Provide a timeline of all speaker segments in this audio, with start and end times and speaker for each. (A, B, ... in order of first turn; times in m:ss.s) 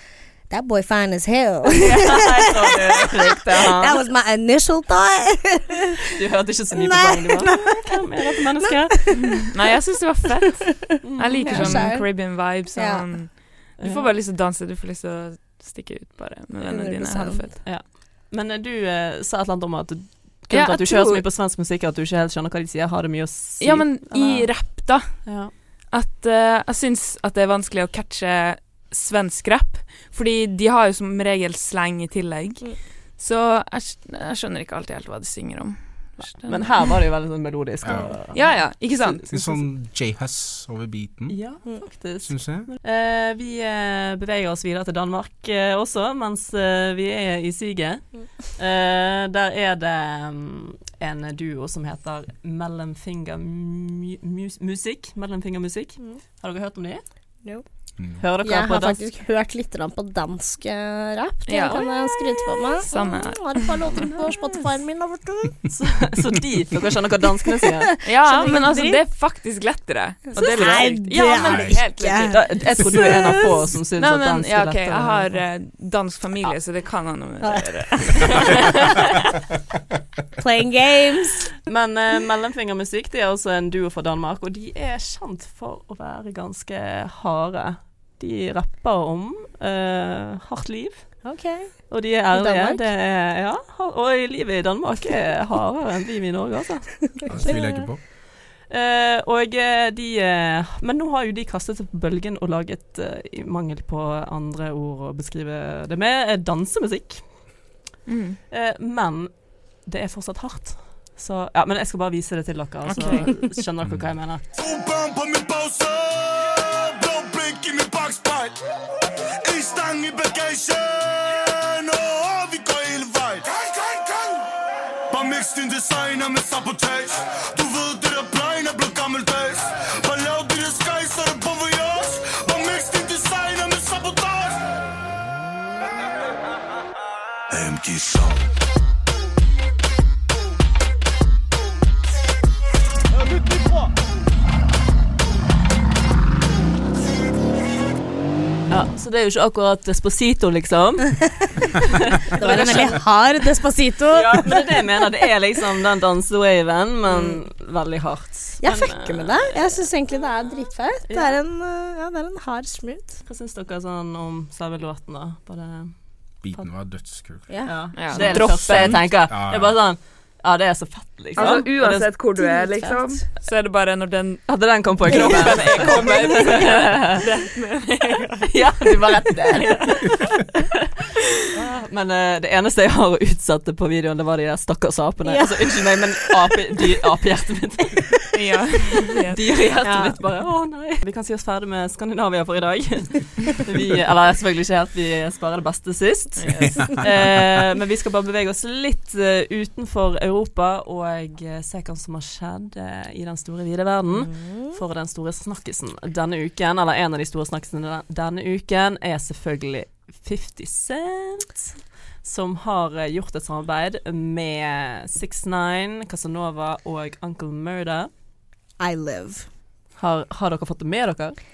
0:00.5-0:06.0 A
0:01.8-0:04.0 B
0:06.1-0:09.1 B
0:06.7-0:09.5 A
0:09.2-0:17.6 C
0:11.0-0:13.1 A
0:11.0-0:11.9 B
0:13.8-0:14.1 B
0:16.6-0:17.4 A
0:17.6-0:24.5 B
0:20.5-0:21.2 C
0:23.6-0:36.9 C
0:25.2-0:25.5 B
0:36.2-0:39.1 B
0:37.8-0:38.7 D
0:38.3-0:39.6 C
0:39.3-0:41.6 D
0:41.3-0:57.0 B
0:42.2-0:42.7 D
0:58.0-0:58.2 D
0:58.2-0:59.0 B
0:58.4-1:05.7 A
1:01.5-1:01.9 C
1:02.9-1:04.4 C
1:05.7-1:07.9 B
1:07.7-1:09.0 A
1:08.0-1:12.6 C
1:10.3-1:13.6 A
1:10.4-1:10.8 B
1:11.4-1:11.8 D
1:12.3-1:15.4 B
1:14.0-1:18.9 C
1:17.4-1:18.7 A
1:18.2-1:18.8 B
1:20.4-1:21.5 A
1:21.7-1:31.3 B
1:31.2-1:32.8 A
1:31.9-1:37.5 B
1:37.2-1:37.8 A
1:37.3-1:38.0 D
1:38.7-1:47.2 B
1:48.1-1:48.4 C
1:48.5-1:54.4 B
1:52.9-1:53.4 C
1:53.8-1:54.2 D
1:54.5-1:58.6 E
1:59.4-2:04.5 E
2:05.1-2:14.6 E
2:28.7-2:31.5 B
2:32.2-2:33.0 B
2:32.3-2:35.1 A
2:32.5-2:32.8 C
2:34.1-2:39.9 B
2:38.6-2:43.2 A
2:41.1-2:41.4 B
2:43.2-2:45.9 B
2:46.4-2:47.8 D
2:47.5-2:48.5 A
2:47.7-2:52.6 B
2:47.9-2:49.0 C
2:48.5-2:49.8 D
2:51.4-2:51.6 A
2:51.4-2:59.0 C
2:52.4-2:53.2 A
2:54.5-2:57.2 B
2:58.4-3:00.8 B
3:01.4-3:08.2 B
3:05.2-3:06.3 A
3:08.3-3:09.4 C
3:09.3-3:31.7 B
3:09.8-3:10.2 A
3:16.4-3:17.1 C
3:16.6-3:17.4 D
3:24.2-3:24.6 A
3:32.2-3:38.1 B
3:38.8-3:39.5 A
3:40.0-3:41.4 B